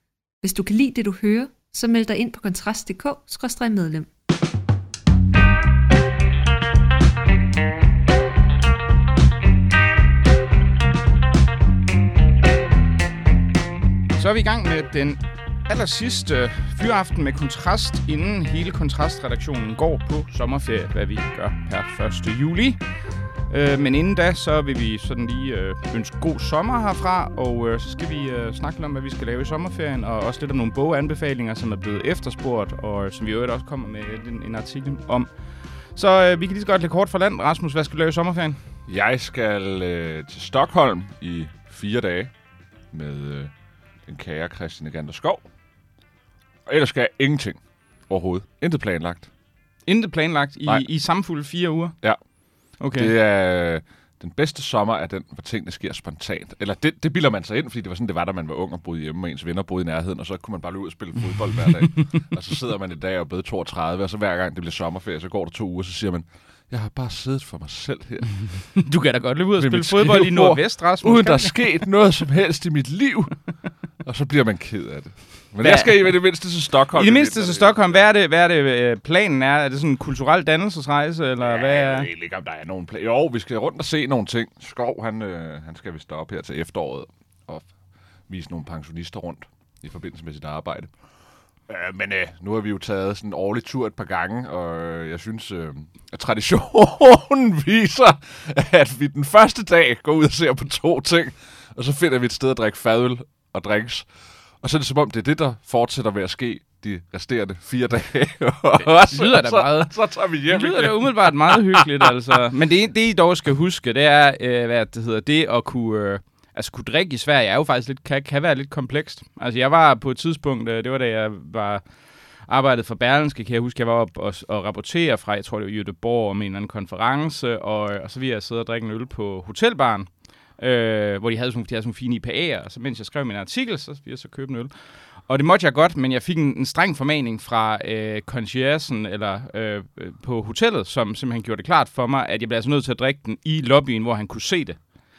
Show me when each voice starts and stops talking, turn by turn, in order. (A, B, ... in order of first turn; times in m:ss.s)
0:00.4-0:04.1 A
0:14.1-0:22.8 B
0:23.5-0:35.3 B
0:35.9-0:38.6 B
0:38.9-0:42.3 C
0:42.9-0:43.5 C
0:44.1-0:45.4 C
0:46.6-0:49.3 C
0:49.8-0:52.0 B
0:52.8-0:53.2 B
0:52.9-1:08.6 C
1:01.9-1:02.2 B
1:08.5-1:11.6 B
1:09.6-1:13.4 C
1:14.0-1:18.0 C
1:15.6-1:16.2 B
1:16.9-1:22.1 B
1:21.4-1:27.7 C
1:28.3-1:30.9 C
1:31.7-1:44.1 C
1:44.6-1:52.1 C
1:48.8-2:01.8 B
2:02.5-2:14.7 B
2:15.3-2:24.8 B